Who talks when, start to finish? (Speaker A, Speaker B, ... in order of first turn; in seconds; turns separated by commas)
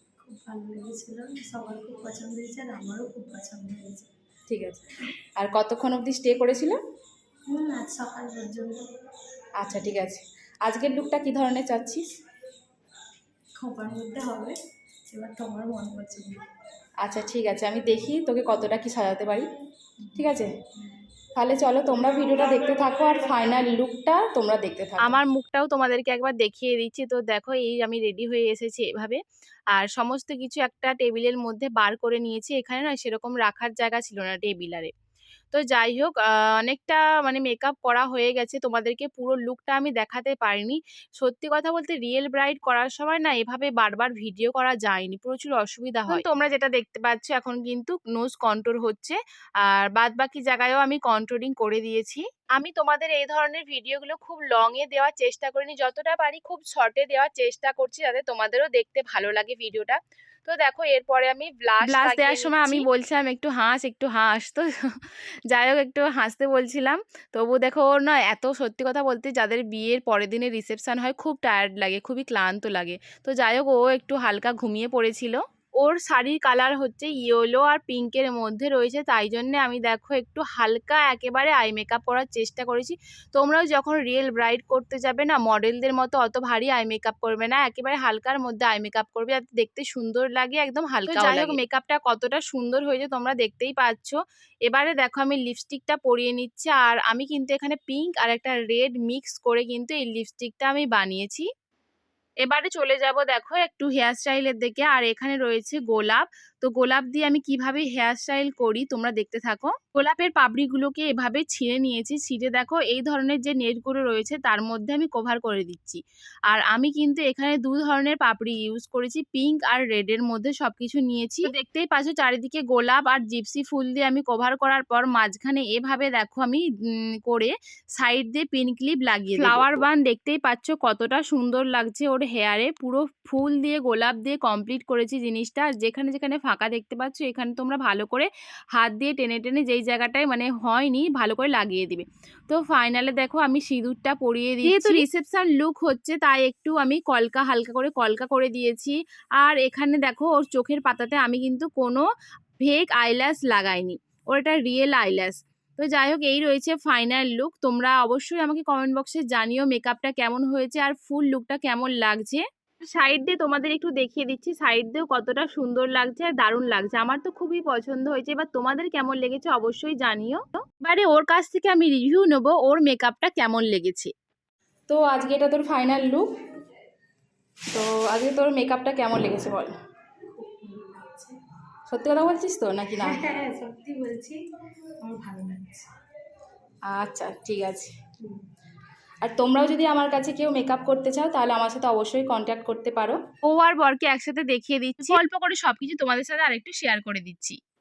Speaker A: 0.2-4.1, Speaker B: 4.5-6.8, Speaker A: 7.5-8.9, Speaker B: 9.6-12.0, Speaker A: 13.6-14.6, Speaker A: 15.1-16.4, Speaker B: 17.0-19.4, Speaker A: 20.0-20.9, Speaker B: 20.1-20.5, Speaker B: 21.3-25.2, Speaker C: 25.0-29.2, Speaker C: 29.7-34.9, Speaker C: 35.5-61.2, Speaker B: 61.8-62.9, Speaker C: 61.8-64.7, Speaker C: 65.5-101.5, Speaker B: 91.1-91.6, Speaker C: 102.4-152.1, Speaker B: 129.3-129.8, Speaker B: 144.6-145.0, Speaker C: 152.6-174.1, Speaker B: 174.9-176.3, Speaker B: 177.7-179.7, Speaker A: 180.2-181.4, Speaker B: 181.9-183.2, Speaker A: 183.0-184.4, Speaker A: 185.0-185.9, Speaker B: 186.9-187.9, Speaker B: 189.2-193.2, Speaker C: 193.4-197.6